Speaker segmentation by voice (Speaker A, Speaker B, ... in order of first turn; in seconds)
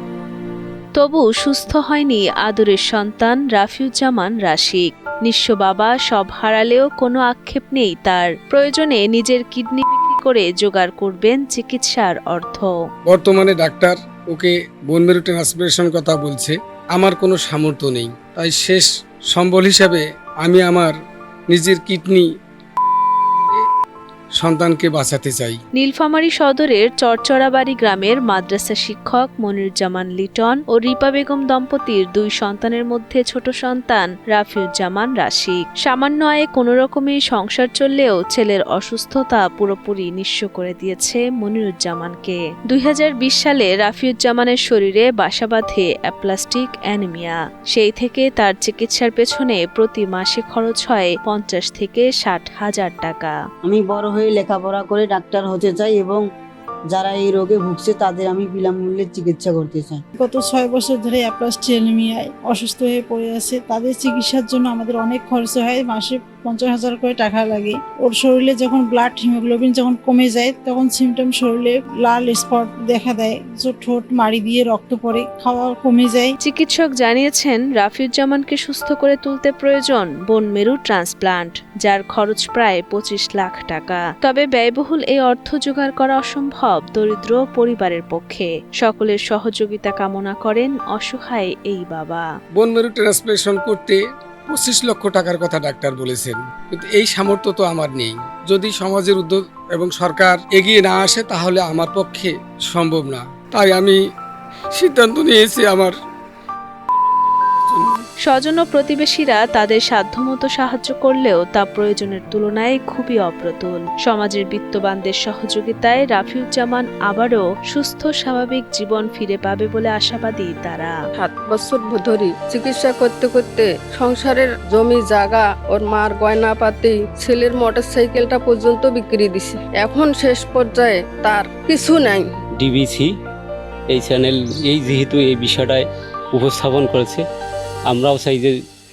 Speaker A: 0.9-12.7, 25.8-53.4, 76.4-92.2, 108.2-120.9
Speaker B: 13.1-20.9, 21.5-22.3, 23.4-23.6, 24.4-25.6, 92.6-104.0, 104.7-105.9, 107.7-108.0
Speaker C: 53.6-56.2, 56.9-60.0
Speaker D: 60.2-76.3
Speaker E: 121.2-132.2
Speaker F: 132.6-133.1, 133.9-137.2, 137.9-138.5